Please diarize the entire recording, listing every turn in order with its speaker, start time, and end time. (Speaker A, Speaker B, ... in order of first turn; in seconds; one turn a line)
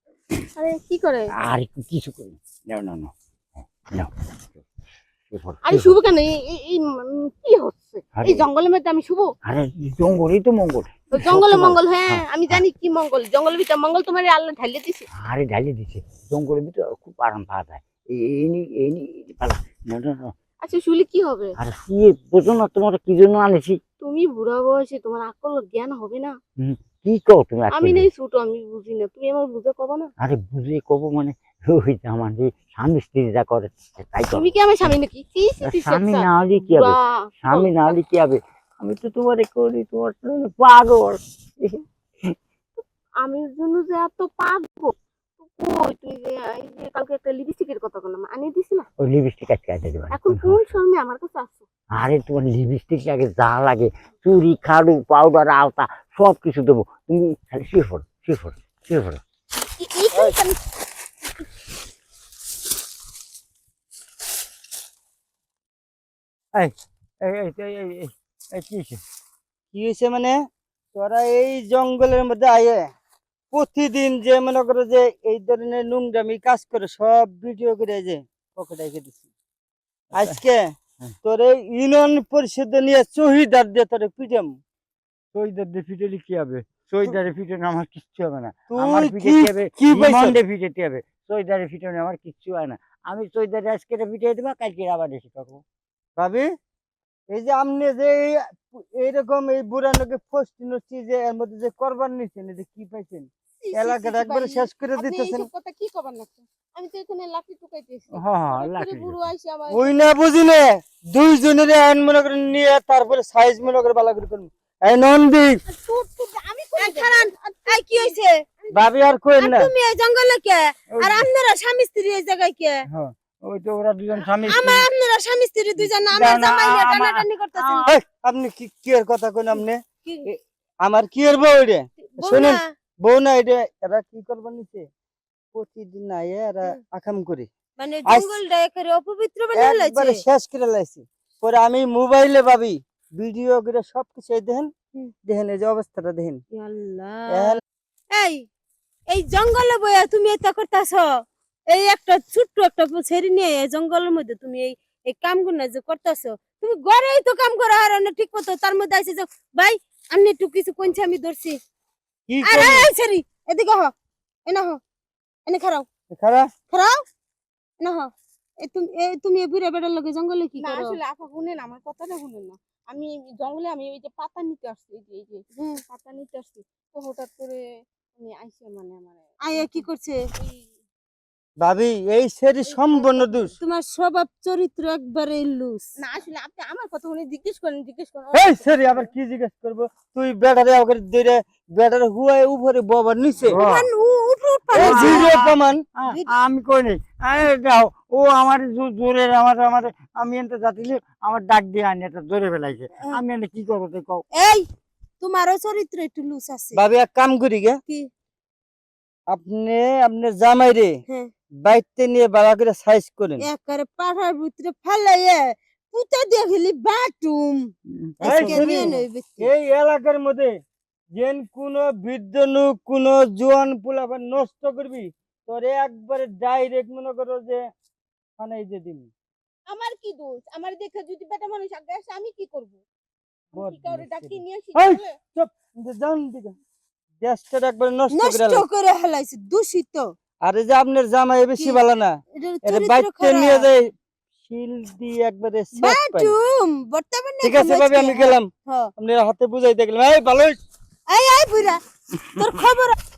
Speaker A: 0.6-1.3
Speaker B: 1.4-3.1
Speaker B: 3.9-4.6
Speaker B: 5.3-6.0
Speaker A: 5.7-9.3
Speaker B: 8.2-8.4
Speaker B: 9.4-12.6
Speaker A: 11.1-15.1
Speaker B: 15.2-20.3
Speaker A: 20.6-21.5
Speaker B: 21.6-23.8
Speaker A: 24.0-26.4
Speaker B: 26.6-28.1
Speaker A: 27.7-30.1
Speaker B: 30.2-35.0
Speaker A: 34.3-37.9
Speaker B: 35.6-42.3
Speaker A: 43.2-48.9
Speaker B: 49.0-50.7
Speaker A: 50.1-51.7
Speaker B: 52.0-59.2
Speaker A: 59.6-60.6
Speaker B: 66.5-69.0
Speaker C: 69.7-70.4
Speaker C: 70.9-72.9
Speaker C: 73.5-79.2
Speaker C: 80.1-80.7
Speaker C: 81.2-84.6
Speaker B: 85.3-95.6
Speaker C: 88.7-90.4
Speaker C: 96.2-96.5
Speaker C: 97.3-105.5
Speaker A: 103.7-109.9
Speaker B: 108.1-109.2
Speaker C: 109.7-115.6
Speaker A: 115.7-118.9
Speaker D: 116.8-118.4
Speaker C: 118.7-119.7
Speaker D: 119.4-122.8
Speaker B: 120.9-121.3
Speaker B: 123.0-124.9
Speaker D: 124.4-127.9
Speaker B: 125.8-127.9
Speaker C: 127.9-134.8
Speaker D: 130.1-130.3
Speaker D: 132.1-132.7
Speaker C: 135.5-137.5
Speaker D: 137.8-140.2
Speaker C: 138.1-138.3
Speaker C: 139.6-144.7
Speaker C: 145.2-146.4
Speaker D: 146.5-148.5
Speaker C: 147.3-147.6
Speaker D: 149.1-161.6
Speaker C: 162.3-162.9
Speaker D: 162.4-163.9
Speaker D: 164.5-164.8
Speaker D: 165.5-165.8
Speaker C: 166.1-166.5
Speaker D: 166.7-167.1
Speaker D: 167.8-171.0
Speaker A: 170.6-179.8
Speaker D: 179.4-180.2
Speaker A: 180.3-180.7
Speaker C: 181.6-183.5
Speaker A: 182.7-183.6
Speaker D: 183.6-185.9
Speaker A: 186.0-189.1
Speaker C: 188.3-193.6
Speaker B: 193.5-193.9
Speaker D: 193.6-195.5
Speaker C: 194.7-195.8
Speaker B: 194.7-195.3
Speaker B: 196.0-204.2
Speaker D: 196.1-196.3
Speaker D: 204.3-204.7
Speaker D: 205.2-206.8
Speaker C: 206.7-207.8
Speaker C: 209.3-210.9
Speaker C: 211.6-213.4
Speaker D: 213.4-219.5
Speaker B: 217.9-219.0
Speaker C: 218.2-220.5
Speaker C: 221.2-227.6
Speaker C: 228.4-229.1
Speaker A: 229.7-232.8
Speaker A: 233.5-235.1
Speaker C: 233.5-236.6
Speaker C: 237.2-238.6
Speaker D: 238.1-240.1
Speaker C: 240.4-243.9
Speaker D: 242.3-243.7
Speaker C: 244.4-246.3
Speaker D: 245.8-248.9
Speaker C: 247.4-250.6
Speaker D: 251.1-251.8
Speaker D: 252.3-252.9